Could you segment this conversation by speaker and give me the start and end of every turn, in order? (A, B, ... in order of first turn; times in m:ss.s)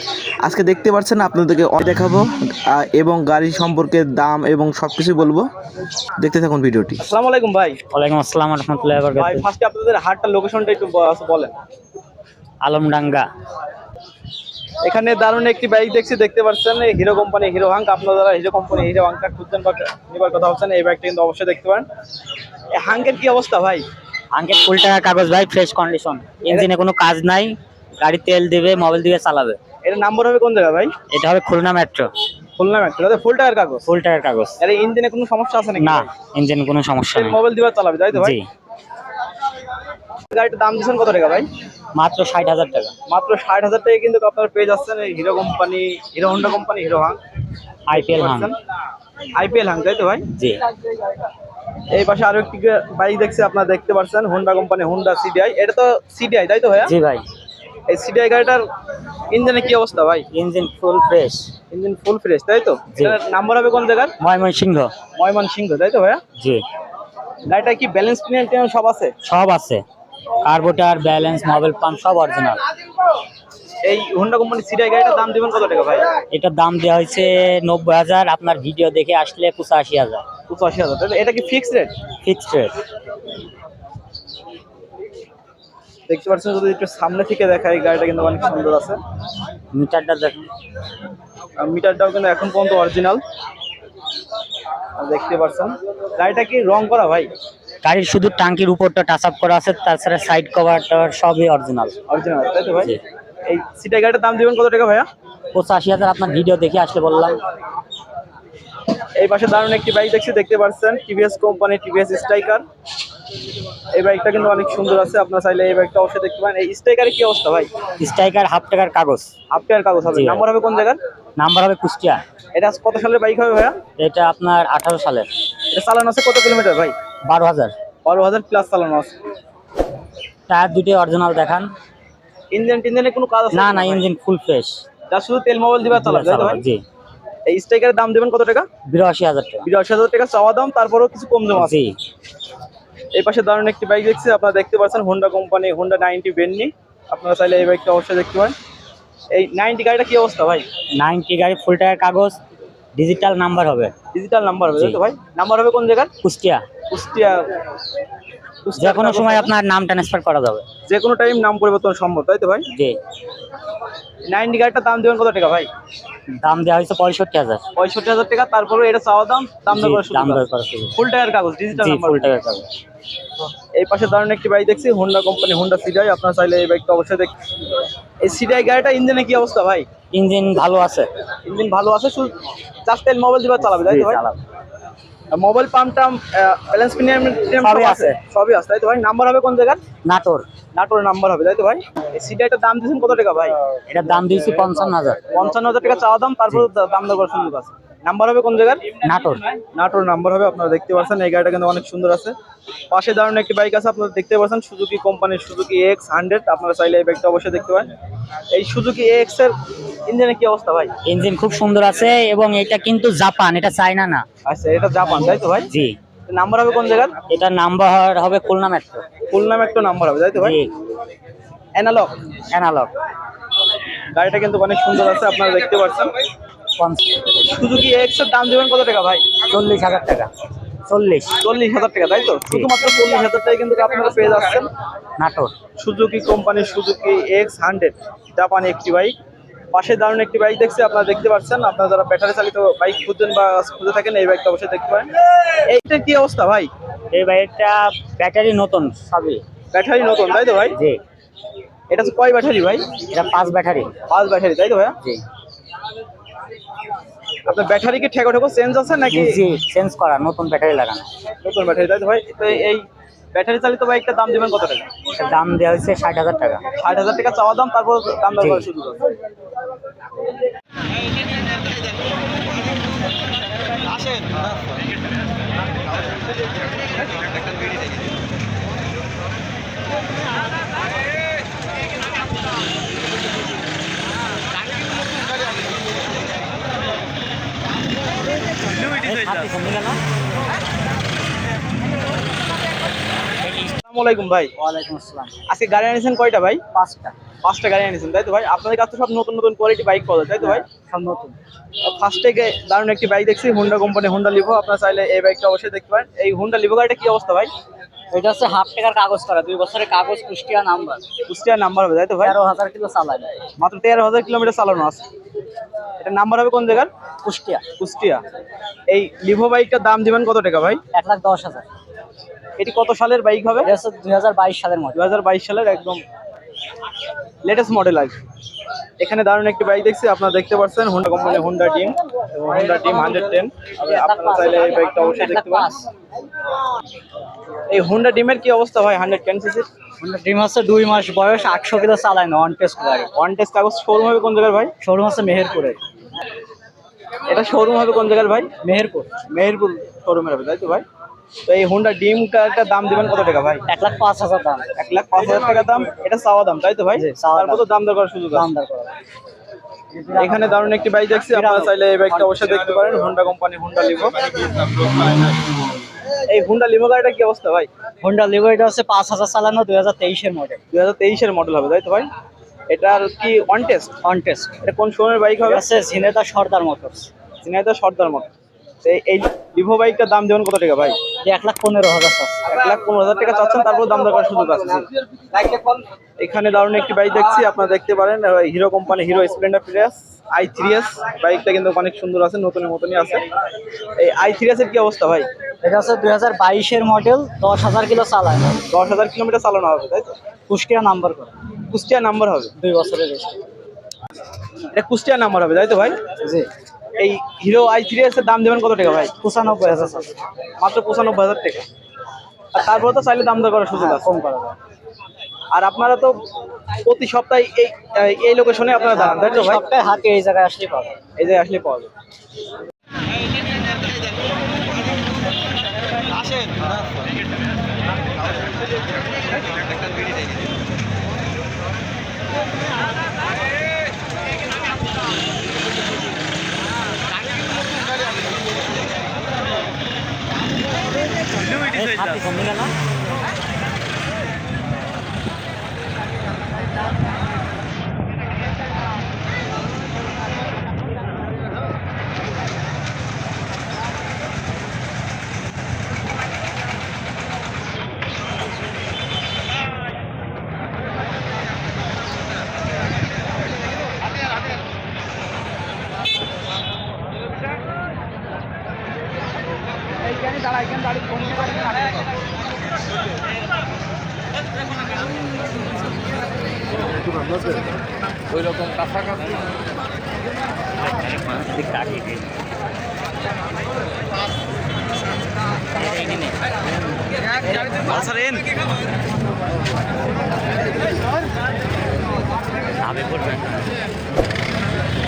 0:00.4-0:05.5 A
0:06.2-0:07.1 A
0:07.0-0:07.8 B
0:07.9-0:09.5 C
0:09.2-0:11.6 B
0:12.6-0:13.3 C
0:14.8-0:21.9 B
0:22.7-0:23.8 B
0:24.3-0:29.6 C
0:26.4-0:26.7 B
0:29.8-0:31.0 B
0:31.1-0:32.1 C
0:32.6-0:33.9 B
0:33.9-0:34.6 C
0:34.6-0:36.1 B
0:35.8-0:37.4 C
0:37.1-0:38.4 B
0:38.1-0:38.4 C
0:40.3-0:41.5 B
0:42.0-0:42.9 C
0:43.1-0:47.2 B
0:47.9-0:48.5 C
0:47.9-0:48.6 B
0:49.3-0:50.3 B
0:50.3-0:50.6 C
0:51.9-0:56.9 B
0:56.8-0:57.2 C
0:57.9-0:58.6 B
0:59.3-1:00.3 B
1:00.3-1:01.5 C
1:01.7-1:04.2 B
1:04.2-1:04.9 C
1:05.2-1:06.2 B
1:07.5-1:09.2 B
1:09.2-1:09.8 C
1:10.4-1:12.6 C
1:13.8-1:16.1 B
1:16.3-1:20.2 C
1:20.5-1:21.9 B
1:22.2-1:22.8 C
1:26.1-1:29.0 B
1:29.7-1:30.5 C
1:31.6-1:33.2 B
1:35.0-1:37.3 B
1:37.8-1:42.0 C
1:42.1-1:45.1 B
1:45.5-1:47.4 C
1:49.2-1:52.6 B
1:53.9-1:57.7 B
1:58.0-1:59.3 C
1:59.5-2:01.0 B
2:00.1-2:00.4 C
2:01.4-2:02.2 C
2:02.5-2:03.8 B
2:04.0-2:05.3 C
2:05.7-2:07.0 B
2:07.2-2:07.7 C
2:08.0-2:09.1 B
2:10.5-2:11.7 C
2:12.5-2:14.0 B
2:13.5-2:14.8 C
2:15.1-2:16.6 B
2:15.9-2:16.8 C
2:17.4-2:18.7 B
2:18.9-2:19.7 C
2:19.6-2:21.8 B
2:21.6-2:21.9 C
2:23.1-2:28.5 B
2:29.3-2:30.7 B
2:31.0-2:32.4 C
2:32.9-2:33.9 C
2:34.1-2:36.1 B
2:36.2-2:36.6 C
2:36.9-2:37.5 B
2:38.6-2:39.5 B
2:38.8-2:40.6 C
2:40.8-2:42.7 B
2:42.7-2:43.0 C
2:44.3-2:45.7 B
2:46.3-2:47.6 C
2:47.8-2:52.3 B
2:49.7-2:50.9 C
2:51.7-2:52.7 C
2:53.7-2:57.3 B
2:58.2-2:59.9 B
3:00.1-3:01.1 C
3:01.4-3:02.3 B
3:02.8-3:04.2 B
3:03.6-3:04.4 C
3:05.3-3:09.8 B
3:07.6-3:08.2 C
3:10.0-3:10.4 C
3:10.7-3:13.6 B
3:13.9-3:15.2 C
3:15.3-3:18.9 B
3:19.0-3:19.4 C
3:19.7-3:22.4 B
3:22.9-3:27.9 B
3:28.5-3:29.6 B
3:30.1-3:30.9 B
3:31.0-3:34.2 C
3:34.4-3:35.7 B
3:35.7-3:35.9 C
3:36.3-3:37.2 B
3:37.3-3:39.0 C
3:39.3-3:40.6 B
3:40.3-3:40.7 C
3:41.8-3:42.1 B
3:42.5-3:42.9 C
3:44.1-3:46.1 B
3:46.8-3:47.1 C
3:47.4-3:49.4 B
3:49.4-3:50.3 C
3:50.8-3:51.3 C
3:51.4-3:54.7 B
3:55.2-3:55.5 C
3:55.8-3:59.2 B
3:59.7-4:05.1 B
4:05.6-4:06.7 B
4:07.1-4:09.4 C
4:09.7-4:10.8 B
4:10.7-4:11.0 C
4:11.9-4:12.9 B
4:13.1-4:13.9 C
4:14.1-4:15.0 B
4:17.4-4:19.4 B
4:19.1-4:21.1 C
4:21.4-4:24.9 B
4:25.2-4:26.6 C
4:26.8-4:29.2 B
4:28.4-4:28.7 C
4:33.9-4:34.2 B
4:48.7-4:49.5 B
4:49.0-4:50.0 C
4:53.8-4:54.5 B
4:54.6-4:55.3 D
4:55.5-4:56.6 B
4:56.7-4:57.1 D
4:57.4-5:00.6 B
5:00.8-5:01.4 D
5:01.8-5:07.5 B
5:08.1-5:11.0 D
5:11.2-5:12.4 B
5:12.2-5:13.3 D
5:13.6-5:15.0 B
5:16.0-5:16.9 B
5:17.2-5:17.6 D
5:17.8-5:18.2 B
5:18.9-5:20.8 B
5:20.9-5:21.6 D
5:22.6-5:23.7 B
5:23.6-5:25.1 D
5:24.9-5:26.0 B
5:27.4-5:28.2 B
5:29.0-5:35.7 B
5:33.8-5:35.9 D
5:37.7-5:39.6 B
5:40.0-5:43.1 D
5:43.2-5:44.7 B
5:44.8-5:45.8 D
5:47.3-5:48.5 B
5:48.6-5:49.1 D
5:49.3-5:50.8 B
5:51.5-5:53.6 B
5:53.7-5:54.7 D
5:54.8-5:58.5 B
5:57.0-5:57.6 D
5:58.3-5:58.9 D
5:59.9-6:00.6 D
6:00.1-6:04.5 B
6:01.2-6:02.3 D
6:06.3-6:07.7 B
6:08.0-6:10.6 D
6:10.7-6:12.1 B
6:12.7-6:14.0 B
6:14.0-6:14.6 D
6:14.6-6:15.6 B
6:15.4-6:17.1 D
6:17.4-6:18.3 B
6:18.8-6:21.0 B
6:21.2-6:22.4 D
6:22.5-6:24.9 B
6:26.2-6:33.2 B
6:34.0-6:35.3 B
6:35.6-6:38.6 D
6:38.7-6:40.2 B
6:40.5-6:41.4 D
6:41.7-6:42.5 B
6:42.6-6:43.4 D
6:44.7-6:46.0 B
6:46.2-6:46.5 D
6:47.0-6:49.1 B
6:49.2-6:50.1 D
6:50.6-6:51.7 B
6:52.5-6:54.1 B
6:53.7-6:54.6 D
6:55.5-6:56.2 B
6:56.8-6:59.6 B
6:58.9-7:00.9 D
7:01.2-7:01.9 B
7:21.4-7:22.1 B
7:21.6-7:22.7 C
8:01.2-8:02.3 C
8:05.8-8:06.4 C
8:07.8-8:08.5 B
8:12.8-8:13.8 C